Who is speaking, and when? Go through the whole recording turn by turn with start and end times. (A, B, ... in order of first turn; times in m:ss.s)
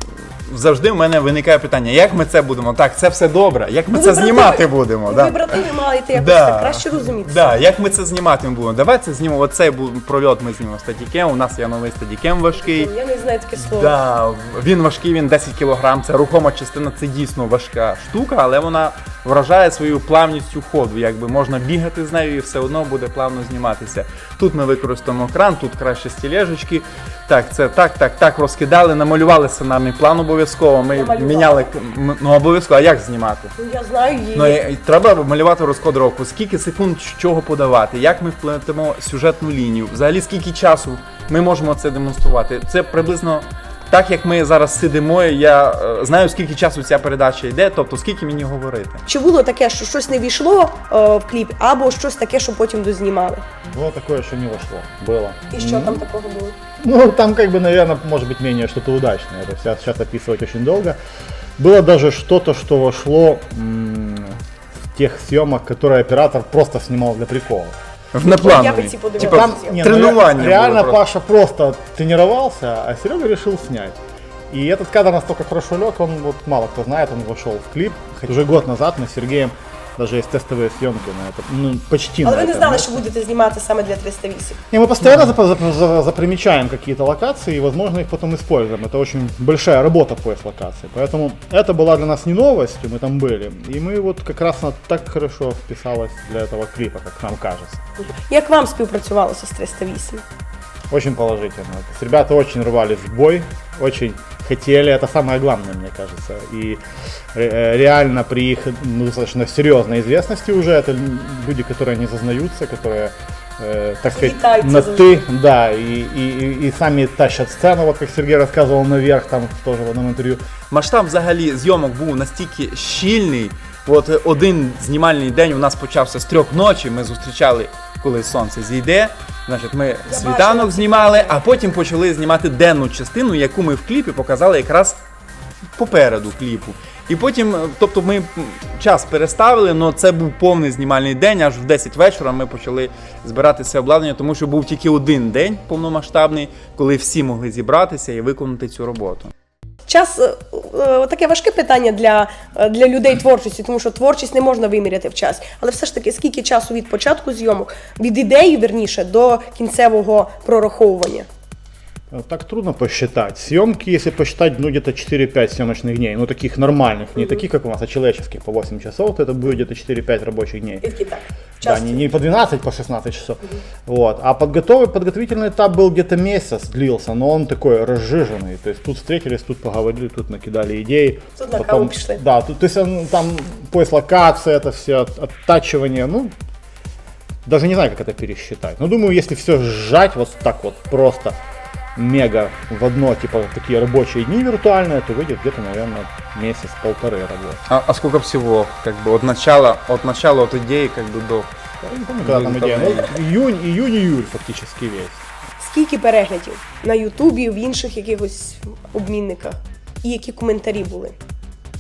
0:00.4-0:05.6 A
0:03.9-0:07.6 B
0:06.1-0:12.9 A
0:12.6-0:14.0 B
0:13.6-0:33.5 A
0:30.9-0:31.7 B
0:33.6-0:34.6 B
0:34.3-0:49.0 A
0:49.1-0:53.4 B
0:53.6-0:56.0 C
0:55.5-0:56.5 B
0:56.8-1:01.0 C
1:01.6-1:04.4 C
1:04.9-1:07.8 C
1:08.1-1:11.0 A
1:08.4-1:09.8 B
1:09.2-1:14.0 C
1:14.5-1:23.0 C
1:22.2-1:24.6 B
1:24.7-1:37.8 C
1:38.3-1:40.2 B
1:40.9-1:46.8 C
1:47.3-2:00.4 C
1:54.1-1:55.1 B
2:00.7-2:15.0 A
2:10.0-2:11.4 B
2:15.8-2:29.3 A
2:29.9-2:41.3 B
2:42.1-2:50.8 C
2:50.8-2:52.1 B
2:51.6-3:06.3 C
3:01.4-3:02.2 B
3:07.4-3:11.4 C
3:12.0-3:17.6 C
3:17.7-3:21.5 A
3:21.8-3:25.2 C
3:22.2-3:23.1 A
3:25.6-3:31.1 B